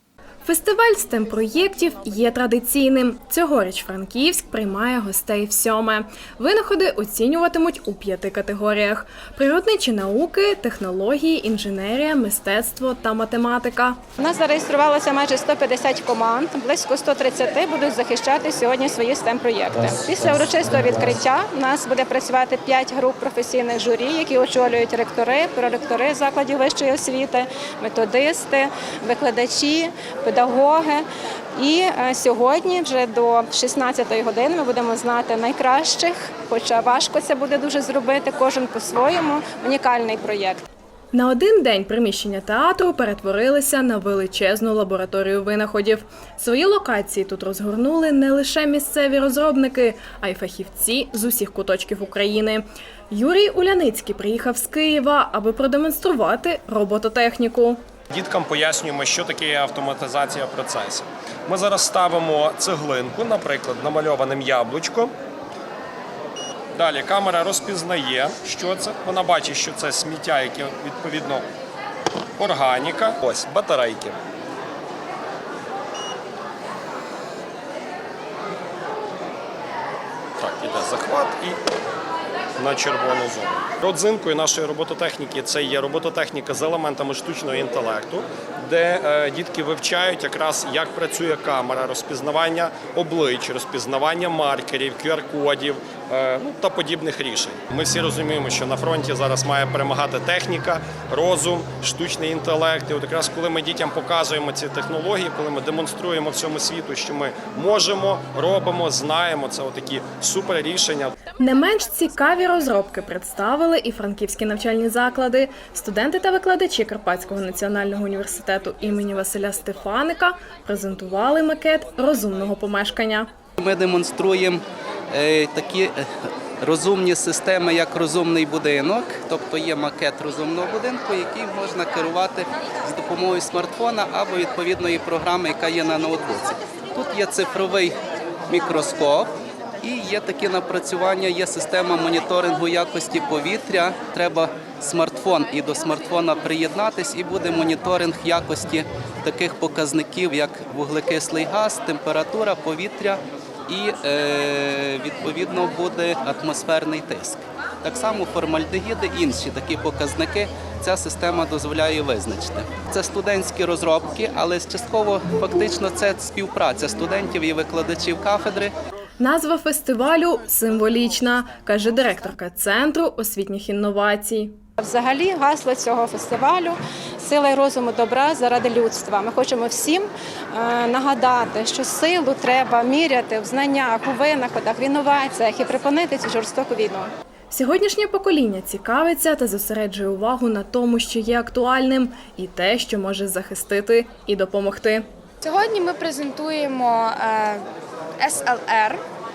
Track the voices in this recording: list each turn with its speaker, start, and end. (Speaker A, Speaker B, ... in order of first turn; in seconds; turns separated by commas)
Speaker A: 0.4-14.0, Speaker B: 14.2-31.0, Speaker B: 31.6-40.6, Speaker A: 41.1-57.8, Speaker C: 58.1-65.1, Speaker C: 66.7-71.4, Speaker C: 72.4-74.2, Speaker C: 80.4-81.6, Speaker C: 82.6-111.2, Speaker A: 111.4-123.3, Speaker D: 123.6-126.0, Speaker D: 126.6-138.0, Speaker D: 138.5-168.7, Speaker A: 169.2-174.6, Speaker B: 174.8-187.1, Speaker A: 187.5-195.0, Speaker E: 195.4-197.6, Speaker E: 198.2-199.0